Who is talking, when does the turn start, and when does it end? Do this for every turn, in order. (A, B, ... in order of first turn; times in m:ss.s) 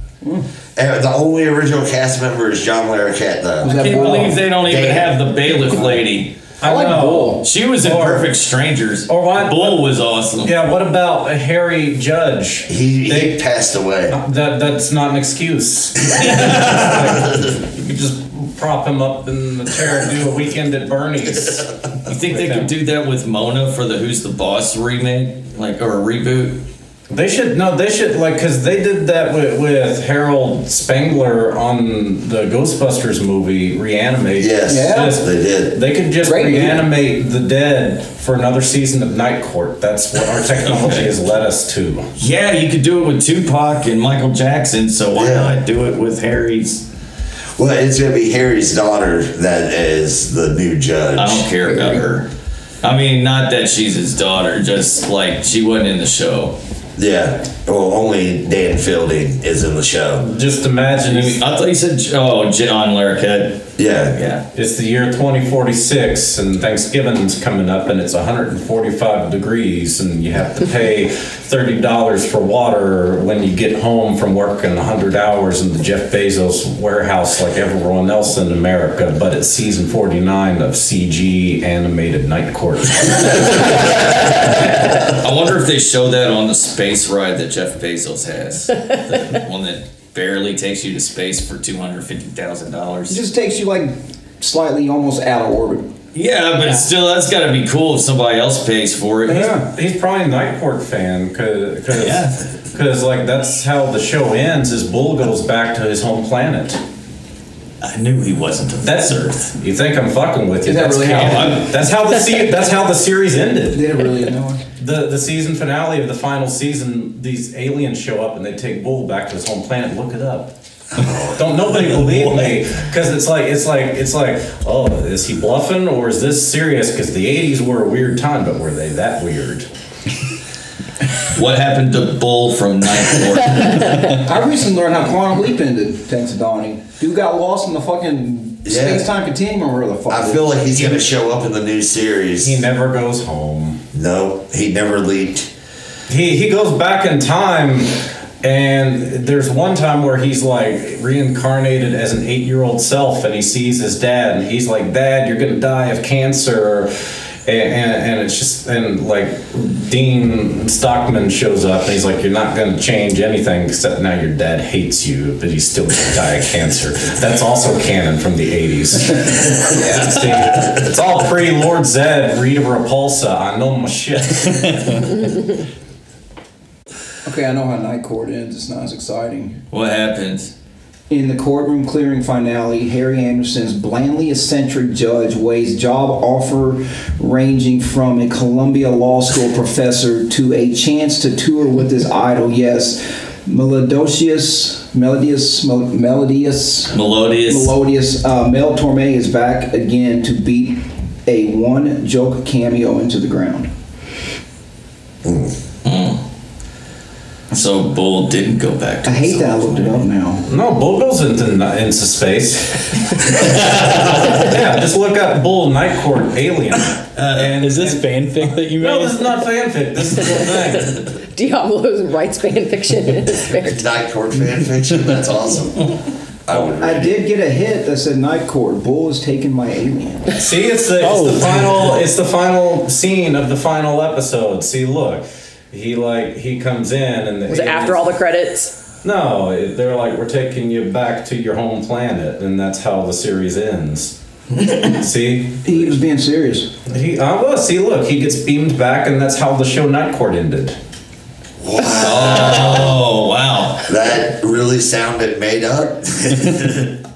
0:00.2-0:00.5 A
0:00.8-0:03.7 B
0:03.6-0:04.4 A
0:03.6-0:06.3 C
0:04.6-0:05.2 B
0:05.5-0:06.0 A
0:06.6-0:08.3 D
0:06.6-0:07.4 A
0:07.4-0:10.5 C
0:09.1-0:09.8 D
0:10.4-0:13.4 D
0:12.7-0:14.2 B
0:14.1-0:22.7 D
0:22.0-0:26.6 C
0:27.1-0:42.1 D
0:34.4-0:35.8 B
0:34.7-0:35.2 A
0:36.2-0:36.9 A
0:40.5-0:41.1 C
0:42.2-0:46.8 C
0:45.1-0:45.6 B
0:47.6-0:51.5 B
0:51.2-0:52.3 C
0:52.8-0:56.6 C
0:57.0-1:00.3 B
1:00.2-1:01.4 D
1:01.1-1:04.4 C
1:03.8-1:04.2 B
1:04.5-1:24.0 D
1:25.0-1:33.2 C
1:33.1-1:35.9 A
1:36.1-1:39.6 C
1:39.3-1:39.7 A
1:39.5-1:46.8 D
1:41.9-1:42.4 C
1:47.8-1:49.5 C
1:48.8-1:54.0 D
1:50.6-1:51.7 A
1:51.1-1:51.6 C
1:53.7-1:54.6 A
1:54.8-2:00.5 D
2:00.9-2:01.6 B
2:01.3-2:09.7 D
2:11.3-2:13.9 C
2:14.1-2:21.0 A
2:18.6-2:19.1 B
2:20.1-2:22.6 B
2:22.4-2:23.8 D
2:23.9-2:25.5 B
2:26.1-2:36.9 D
2:37.4-2:55.1 D
2:49.7-2:50.2 A
2:57.2-2:59.6 A
2:59.7-3:00.5 C
3:01.1-3:23.7 A
3:16.9-3:17.7 C
3:25.2-3:25.5 B
3:25.8-3:26.2 C
3:27.5-3:30.1 C
3:29.0-3:30.4 A
3:30.5-3:38.2 D
3:33.5-3:34.2 C
3:37.1-3:37.5 C
3:37.6-3:39.3 E
3:38.7-3:41.0 D
3:41.2-3:43.8 F
3:43.5-3:45.9 B
3:46.4-3:47.2 B
3:46.7-3:50.3 A
3:50.3-3:58.1 D
3:51.0-3:51.9 E
3:57.5-3:58.8 F
3:59.0-4:04.2 D
4:04.7-4:05.9 D
4:05.6-4:06.7 A
4:06.9-4:10.8 D
4:11.6-4:13.0 B
4:11.9-4:13.9 C
4:13.8-4:16.9 B